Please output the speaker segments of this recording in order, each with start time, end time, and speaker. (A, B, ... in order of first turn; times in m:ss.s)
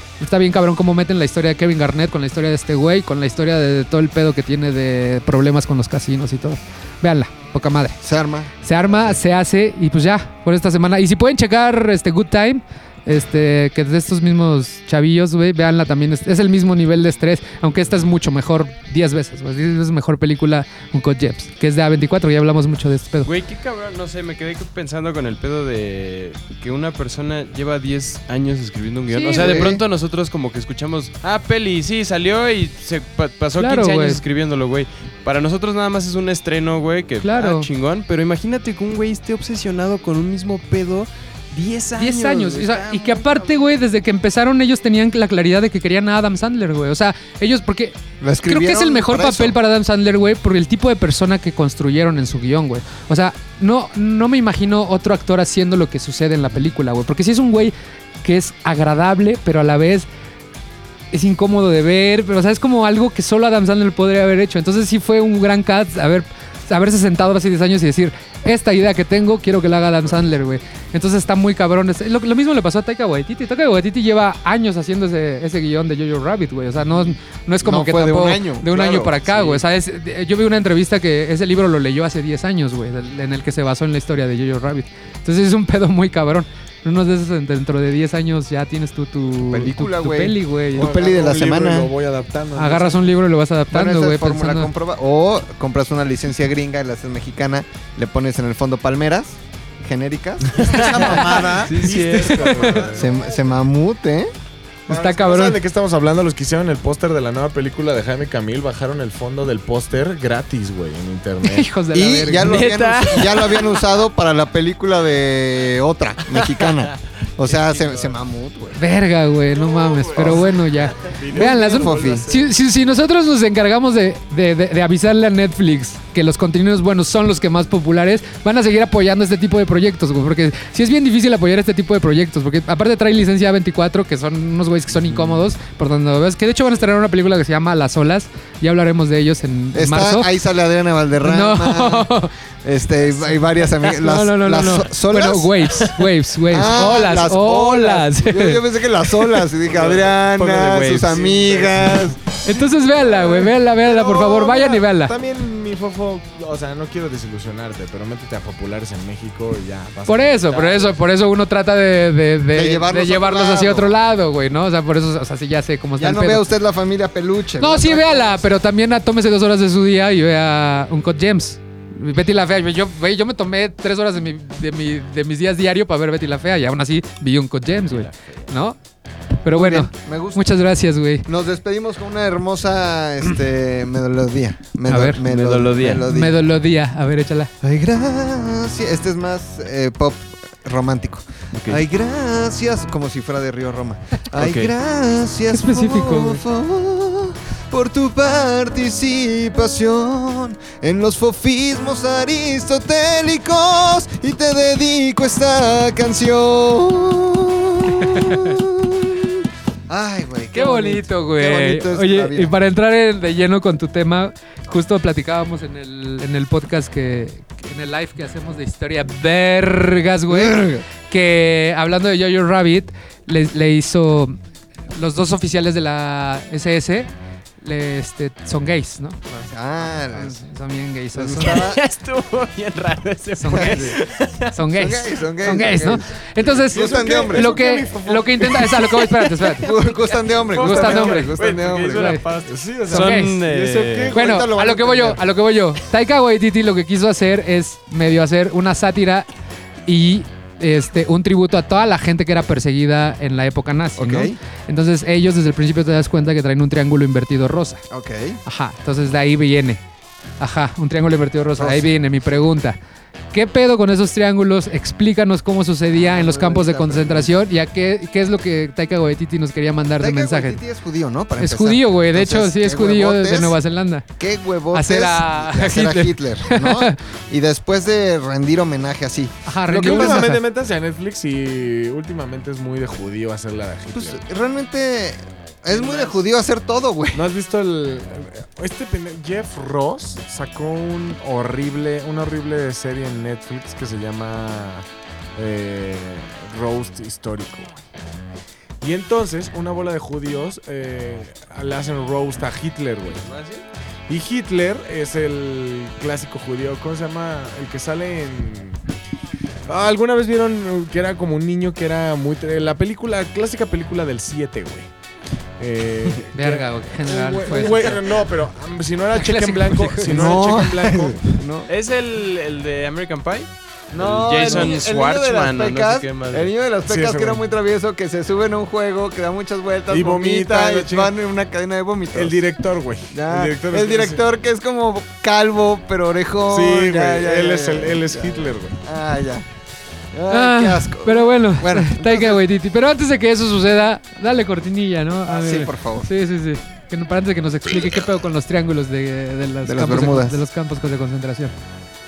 0:00.2-0:08.0 A
0:08.0-0:09.2 B
0:08.6-0:23.3 A
0:23.2-0:43.5 C
0:29.1-0:29.7 A
0:29.4-0:29.8 B
0:33.6-0:34.2 A
0:37.2-0:37.7 A
0:42.0-1:00.1 A
0:48.2-0:49.6 B
1:01.1-1:30.9 A
1:17.6-1:19.6 B
1:29.5-1:31.9 B
1:30.8-1:33.0 D
1:32.6-1:34.7 A
1:33.7-1:41.7 B
1:40.6-1:43.0 C
1:40.6-1:43.1 D
1:43.0-1:44.3 B
1:44.9-1:51.7 D
1:44.9-1:45.6 A
1:51.4-1:52.8 A
1:51.9-1:58.8 B
1:52.4-1:53.8 C
1:57.6-1:58.0 C
1:58.8-2:20.3 A
1:59.6-2:00.4 D
2:00.2-2:00.5 B
2:01.0-2:02.5 D
2:01.3-2:02.3 B
2:19.7-2:22.1 B
2:21.2-2:22.3 A
2:22.6-2:32.2 B
2:23.1-2:28.6 A
2:29.7-2:30.1 D
2:30.3-2:31.3 C
2:31.1-2:32.0 D
2:32.4-2:35.1 A
2:32.6-2:41.0 D
2:40.1-2:46.5 A
2:42.5-2:44.0 B
2:46.0-2:48.5 B
2:47.6-2:58.8 A
2:57.9-2:58.4 C
2:59.4-3:01.3 A
2:59.5-3:00.4 B
3:01.3-3:06.4 B
3:04.9-3:05.2 A
3:05.2-3:06.0 C
3:06.0-3:07.5 A
3:07.6-3:32.5 B
3:11.5-3:11.8 C
3:14.4-3:14.7 C
3:15.5-3:16.4 A
3:27.9-3:28.6 A
3:30.5-3:44.4 A
3:40.3-3:40.8 B
3:45.0-3:47.1 A
3:47.6-3:49.2 A
3:49.3-3:50.4 B
3:50.1-3:51.7 A
3:51.2-3:51.8 B
3:51.4-3:54.6 C
3:53.4-3:54.0 A
3:53.5-3:54.0 B
3:54.5-3:59.7 A
3:54.7-3:57.6 B
3:56.7-3:58.8 D
3:59.4-4:04.1 C
3:59.6-4:02.2 B
4:00.6-4:01.4 A
4:01.9-4:02.2 A
4:02.5-4:04.3 D
4:02.9-4:03.4 A
4:04.1-4:05.2 B
4:04.1-4:09.3 A
4:09.9-4:17.8 A
4:14.0-4:14.4 B
4:17.9-4:18.4 B
4:18.4-4:19.8 A
4:20.4-4:22.8 A
4:21.6-4:21.9 B
4:23.3-4:30.6 A
4:26.0-4:27.3 B
4:30.0-4:33.6 B
4:31.4-4:34.0 A
4:34.2-4:40.4 B
4:34.7-4:37.0 A
4:39.5-4:40.4 A
4:39.7-4:44.2 D
4:43.9-4:47.3 B
4:45.7-4:46.2 D
4:47.1-4:57.8 D
4:58.8-5:03.2 D
5:03.2-5:03.6 C
5:04.1-5:08.8 D
5:09.7-5:14.9 D
5:15.6-5:21.2 D
5:16.3-5:18.0 A
5:19.2-5:20.5 A
5:20.1-5:21.7 B
5:21.7-5:26.5 C
5:23.9-5:32.4 B
5:24.2-5:24.7 D
5:26.9-5:27.4 D
5:29.9-5:31.1 D
5:32.1-5:34.2 D
5:33.1-5:39.5 B
5:36.5-5:38.8 D
5:40.1-5:42.4 B
5:40.3-5:51.5 A
5:45.3-5:46.1 B
5:49.6-5:50.4 B